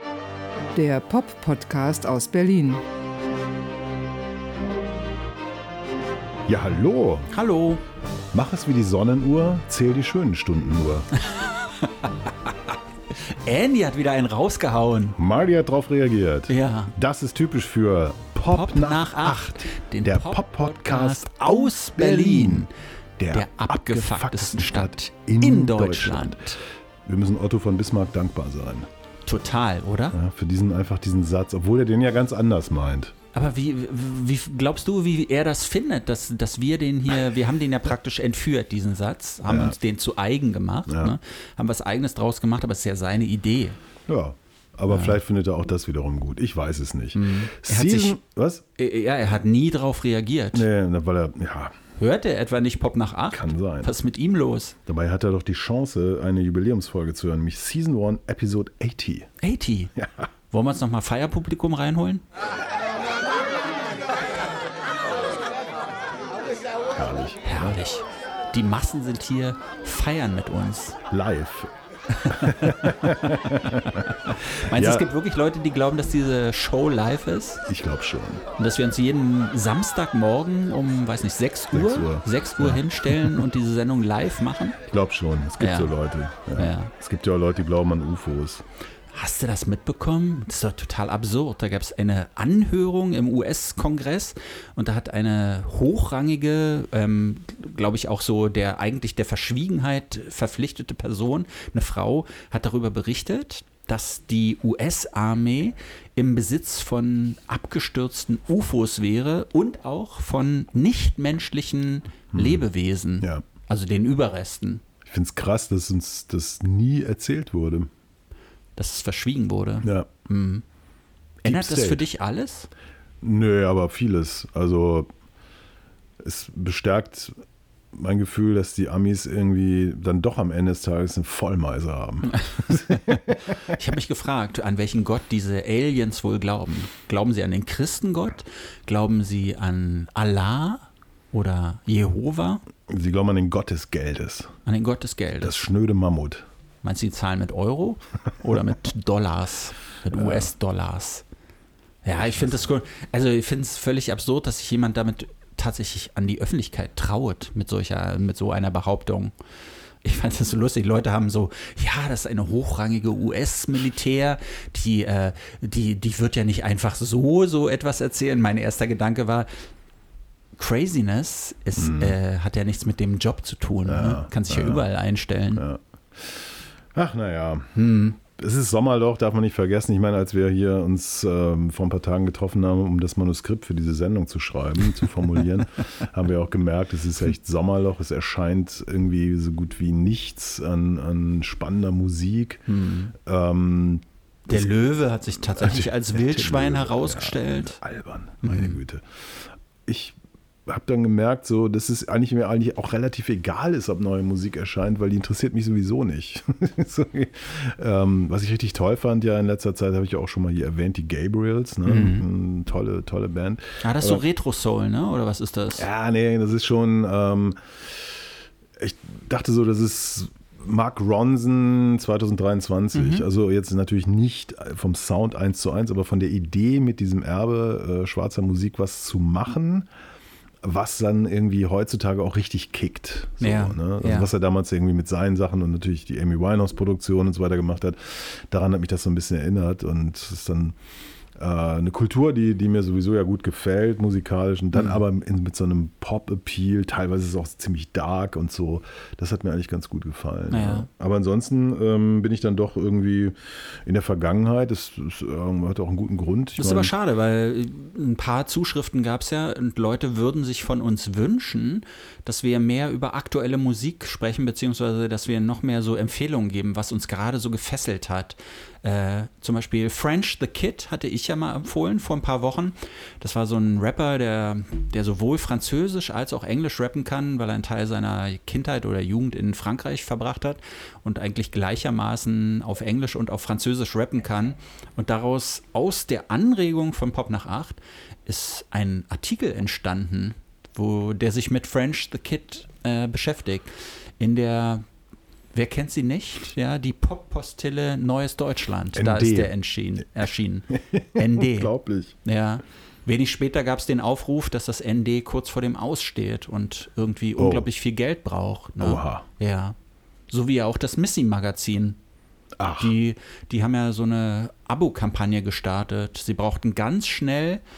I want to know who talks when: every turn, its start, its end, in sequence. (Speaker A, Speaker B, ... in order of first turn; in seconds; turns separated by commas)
Speaker A: 0.7-2.8, Speaker B: 6.5-7.3, Speaker C: 7.3-7.8, Speaker B: 8.3-11.1, Speaker C: 11.2-12.5, Speaker C: 13.1-15.2, Speaker B: 15.2-22.7, Speaker C: 16.5-16.9, Speaker C: 18.5-22.7, Speaker B: 23.2-28.9, Speaker C: 23.3-26.6, Speaker C: 29.3-30.2, Speaker B: 30.1-33.1, Speaker C: 33.3-43.8, Speaker B: 39.5-39.8, Speaker B: 40.9-41.2, Speaker B: 44.1-48.6, Speaker C: 44.9-45.2, Speaker C: 47.2-48.2, Speaker C: 48.8-50.7, Speaker B: 50.5-51.8, Speaker C: 52.0-54.8, Speaker B: 53.3-53.9, Speaker B: 54.9-59.3, Speaker C: 59.4-59.9, Speaker B: 60.0-60.3, Speaker C: 60.5-62.2, Speaker B: 67.0-67.8, Speaker C: 67.4-71.0, Speaker B: 71.1-71.7, Speaker C: 72.1-77.6, Speaker B: 72.3-75.1, Speaker B: 77.7-78.4, Speaker C: 78.6-84.8, Speaker B: 81.7-83.5, Speaker B: 84.9-88.6, Speaker C: 85.6-85.9, Speaker C: 86.5-86.9, Speaker C: 89.1-114.8, Speaker B: 112.3-112.6, Speaker B: 115.0-117.9, Speaker C: 118.8-120.6, Speaker B: 119.8-120.1, Speaker B: 121.4-122.0, Speaker C: 121.5-122.7, Speaker B: 123.2-125.1, Speaker B: 126.2-127.3, Speaker B: 127.9-133.4, Speaker C: 132.2-142.6, Speaker B: 142.9-144.6, Speaker C: 144.7-145.6, Speaker B: 145.4-146.5, Speaker C: 146.8-151.2, Speaker B: 150.1-150.5, Speaker C: 152.1-159.3, Speaker B: 152.2-152.7, Speaker C: 160.0-169.5, Speaker C: 170.6-175.6, Speaker B: 171.8-172.2, Speaker B: 173.9-174.8, Speaker B: 175.5-192.6, Speaker C: 177.8-178.2, Speaker C: 192.7-193.1, Speaker B: 193.2-194.7, Speaker C: 194.5-197.8, Speaker B: 195.5-214.2, Speaker C: 198.4-198.8, Speaker C: 211.9-212.3, Speaker C: 213.8-215.9, Speaker B: 215.8-218.3, Speaker B: 218.8-229.9, Speaker C: 222.9-223.2, Speaker B: 230.6-240.8, Speaker C: 233.4-234.3, Speaker B: 241.4-256.9, Speaker C: 244.8-245.0, Speaker C: 250.5-250.9, Speaker C: 256.6-294.9, Speaker C: 295.5-301.7, Speaker B: 298.9-299.5, Speaker B: 300.8-302.2, Speaker C: 302.2-309.8, Speaker B: 307.4-307.7, Speaker B: 308.8-309.3, Speaker C: 310.3-312.0, Speaker B: 312.6-313.0, Speaker C: 312.8-317.6